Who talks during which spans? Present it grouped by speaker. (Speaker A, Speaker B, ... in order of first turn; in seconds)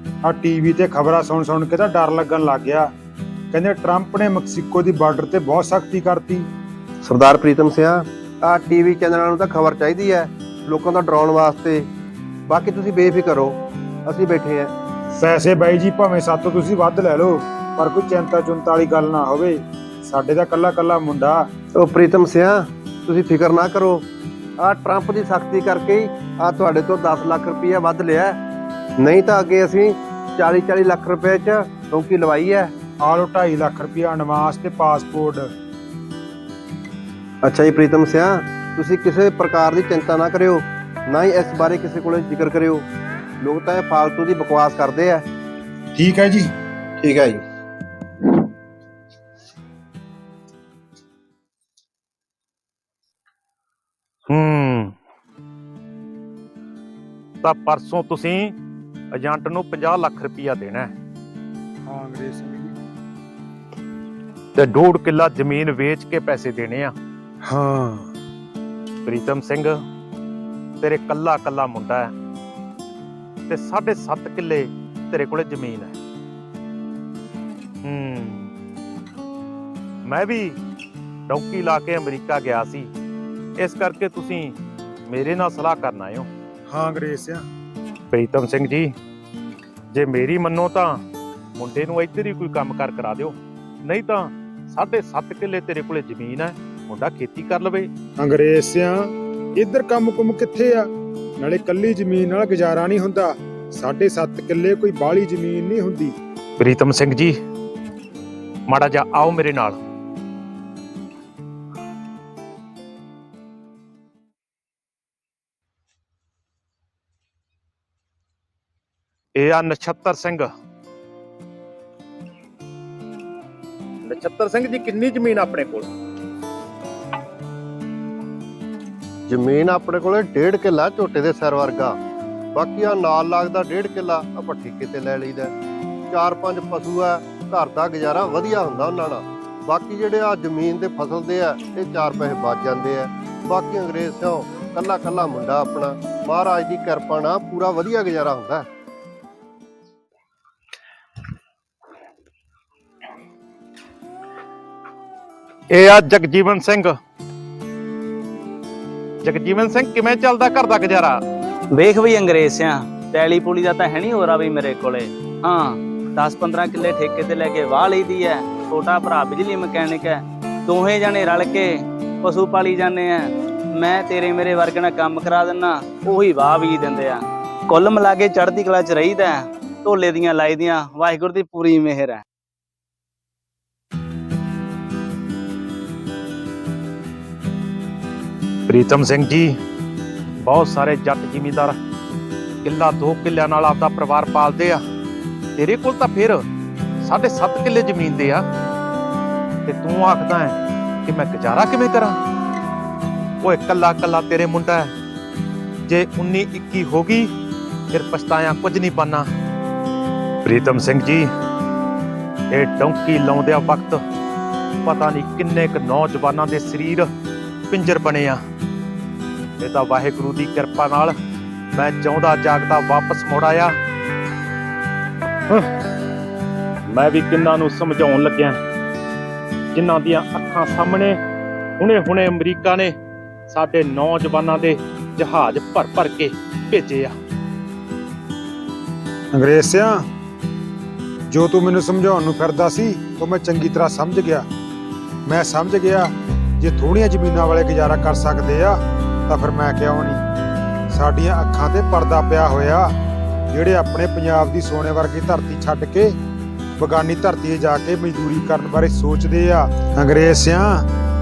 Speaker A: 0.2-2.9, 3.5-6.5, 15.2-21.4, 33.0-35.4, 46.0-46.5, 61.9-62.7, 67.5-68.1, 86.7-87.4, 98.2-100.9, 101.4-106.1, 239.3-240.0, 241.3-244.4, 245.3-250.2, 250.9-252.9, 253.5-256.1, 256.8-260.8
Speaker B: 7.0-11.9, 12.5-13.5, 14.1-14.7, 21.8-24.0, 24.6-28.4, 29.0-32.7, 37.4-42.8, 43.4-45.2, 47.0-47.4, 129.3-131.9, 132.5-135.5, 136.1-148.7
Speaker C: 54.3-54.9, 57.4-58.5, 59.1-60.9, 64.6-66.9, 69.0-69.7, 70.8-72.1, 73.5-76.0, 77.8-78.5, 80.1-80.6, 81.3-82.9, 83.6-84.5, 85.1-86.3, 88.1-88.9, 89.9-90.9, 91.6-97.9, 106.6-107.3, 108.7-109.8, 119.4-120.5, 124.0-125.9, 155.7-156.9, 159.2-161.2, 188.7-189.5, 190.4-191.8, 192.6-194.8, 195.6-196.4, 197.0-198.4, 199.7-202.2, 203.4-204.9, 205.9-207.3, 207.9-209.3, 210.4-211.3, 212.5-214.0, 214.8-217.1, 217.7-218.4, 219.6-221.1, 221.7-223.7, 226.9-228.6, 229.7-231.2, 231.8-232.9, 233.5-237.1
Speaker D: 161.7-171.7, 172.2-182.2